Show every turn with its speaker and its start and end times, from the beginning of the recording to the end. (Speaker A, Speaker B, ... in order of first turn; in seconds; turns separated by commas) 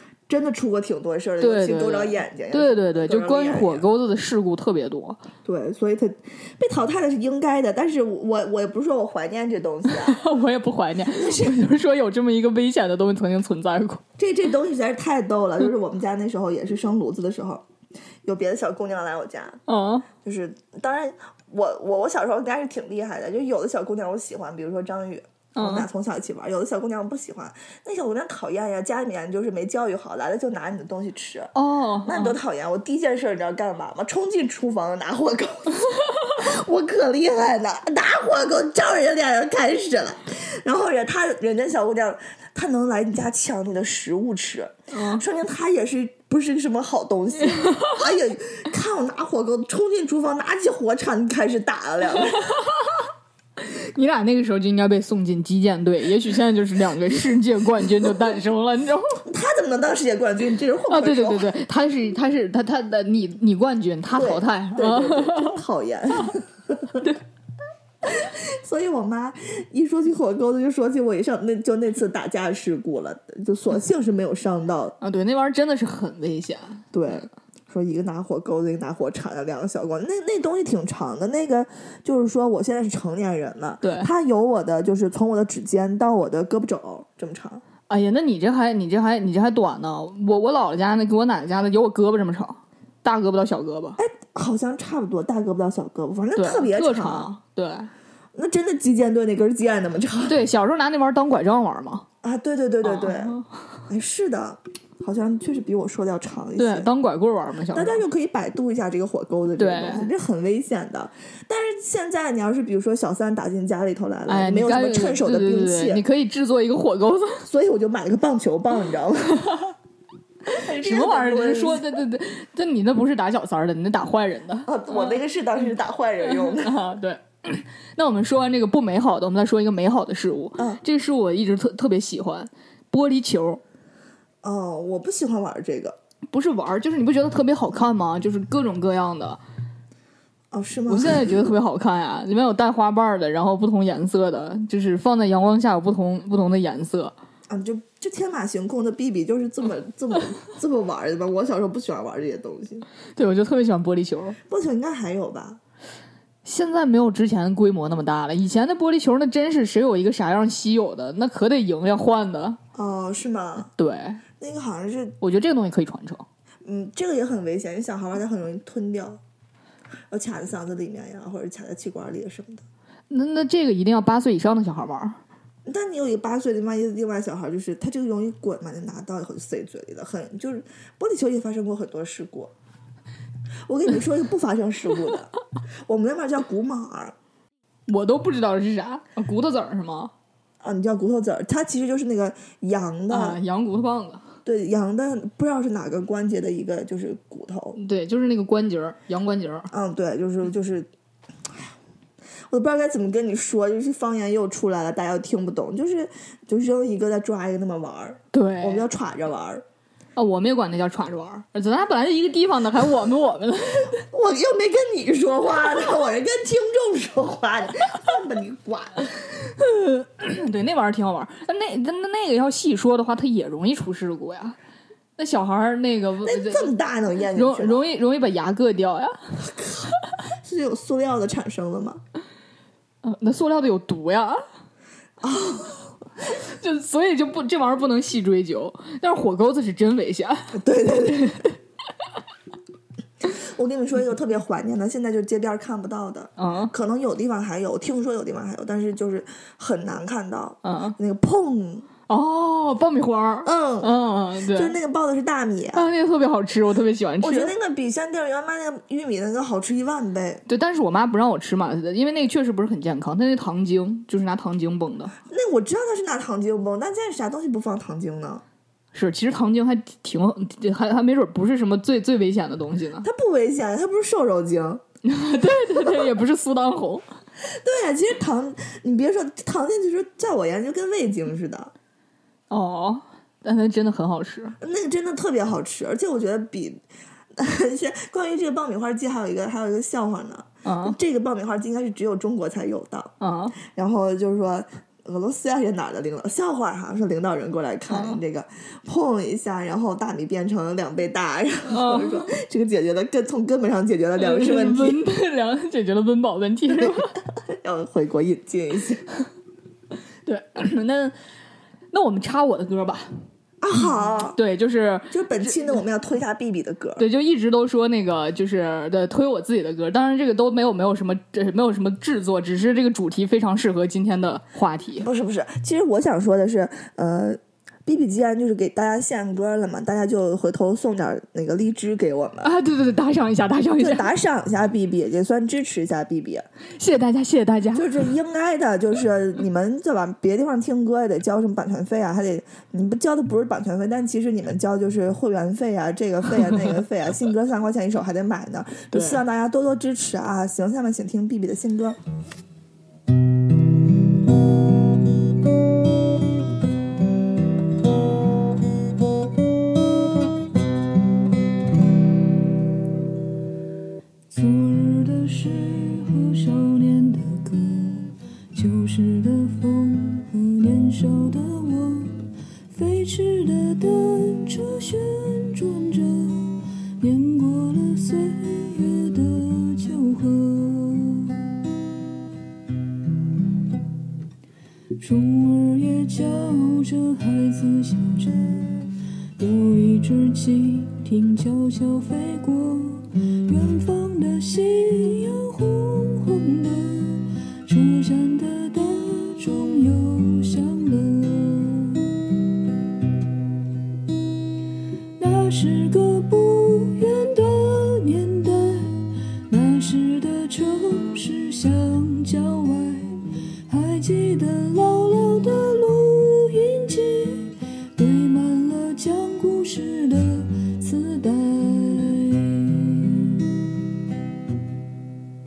Speaker A: 0.3-3.9, Speaker B: 1.4-5.2, Speaker A: 5.4-10.2, Speaker B: 9.9-14.0, Speaker A: 11.1-11.5, Speaker A: 14.2-17.6, Speaker A: 18.2-19.6, Speaker B: 19.7-20.1, Speaker A: 20.2-31.5, Speaker B: 25.5-25.9, Speaker B: 31.5-32.4, Speaker A: 32.0-52.5, Speaker B: 44.9-45.2, Speaker B: 47.5-48.0, Speaker B: 52.4-52.9, Speaker B: 53.6-59.2, Speaker A: 59.2-61.5, Speaker B: 60.9-65.6, Speaker A: 64.1-67.0, Speaker A: 68.0-75.0, Speaker B: 75.0-76.8, Speaker A: 76.9-87.6, Speaker B: 83.8-84.1, Speaker B: 87.9-94.0, Speaker A: 94.0-97.3, Speaker B: 96.3-97.9, Speaker A: 98.3-100.4, Speaker B: 100.2-102.0, Speaker A: 102.2-103.3, Speaker B: 102.8-103.5, Speaker A: 103.9-106.9, Speaker B: 106.6-108.0, Speaker A: 107.7-116.0, Speaker B: 109.6-110.1, Speaker B: 114.3-117.5, Speaker A: 117.5-119.6, Speaker B: 119.4-119.7, Speaker A: 120.5-121.9, Speaker B: 120.5-125.2, Speaker A: 124.7-126.8, Speaker B: 126.2-133.6, Speaker A: 134.4-136.0, Speaker B: 136.3-139.4, Speaker A: 140.5-141.4, Speaker B: 140.9-147.1, Speaker A: 147.5-152.8, Speaker B: 153.2-154.4, Speaker A: 154.5-155.6, Speaker B: 156.4-162.6, Speaker A: 162.7-163.7, Speaker B: 163.7-164.2, Speaker A: 164.4-165.2, Speaker B: 165.2-166.2, Speaker A: 166.6-169.2, Speaker A: 170.1-172.6, Speaker B: 173.1-175.2, Speaker A: 175.7-182.5, Speaker A: 183.7-185.3, Speaker A: 185.9-187.1, Speaker B: 187.9-190.1, Speaker A: 190.6-193.4, Speaker B: 193.1-194.2, Speaker A: 194.4-197.8, Speaker B: 197.8-199.7, Speaker A: 199.7-200.9, Speaker A: 202.5-209.6, Speaker B: 208.3-208.9, Speaker B: 210.2-213.9, Speaker A: 214.1-219.1, Speaker B: 219.4-224.6, Speaker B: 225.2-226.7, Speaker A: 226.2-227.8, Speaker B: 227.3-229.4, Speaker A: 229.5-232.0, Speaker B: 233.0-234.4, Speaker A: 235.2-235.9, Speaker B: 236.3-241.5, Speaker A: 240.5-241.4, Speaker A: 243.2-251.9, Speaker B: 246.4-246.7, Speaker B: 250.6-251.0, Speaker B: 252.1-254.8, Speaker A: 253.4-253.9, Speaker A: 254.5-255.9, Speaker B: 255.7-257.5, Speaker A: 257.2-260.4, Speaker B: 260.5-265.1, Speaker A: 265.2-268.4, Speaker B: 268.9-273.1, Speaker A: 273.0-274.8, Speaker B: 275.0-277.0, Speaker A: 277.4-281.7, Speaker B: 282.5-284.6, Speaker A: 284.6-286.8, Speaker A: 287.3-293.1, Speaker B: 290.6-290.9, Speaker B: 293.2-293.6, Speaker A: 293.6-305.0, Speaker B: 297.9-298.2, Speaker B: 301.7-302.3, Speaker B: 304.2-307.1, Speaker A: 306.7-309.1, Speaker B: 310.2-311.1, Speaker B: 311.9-313.1, Speaker A: 313.6-314.4, Speaker B: 314.3-315.7, Speaker A: 315.1-317.1, Speaker B: 317.0-325.1, Speaker A: 325.0-332.5, Speaker B: 332.4-334.1, Speaker A: 333.8-336.5, Speaker B: 336.8-338.1, Speaker A: 337.7-352.0, Speaker B: 348.9-349.2, Speaker C: 364.3-381.4, Speaker C: 385.0-402.0, Speaker C: 405.2-423.2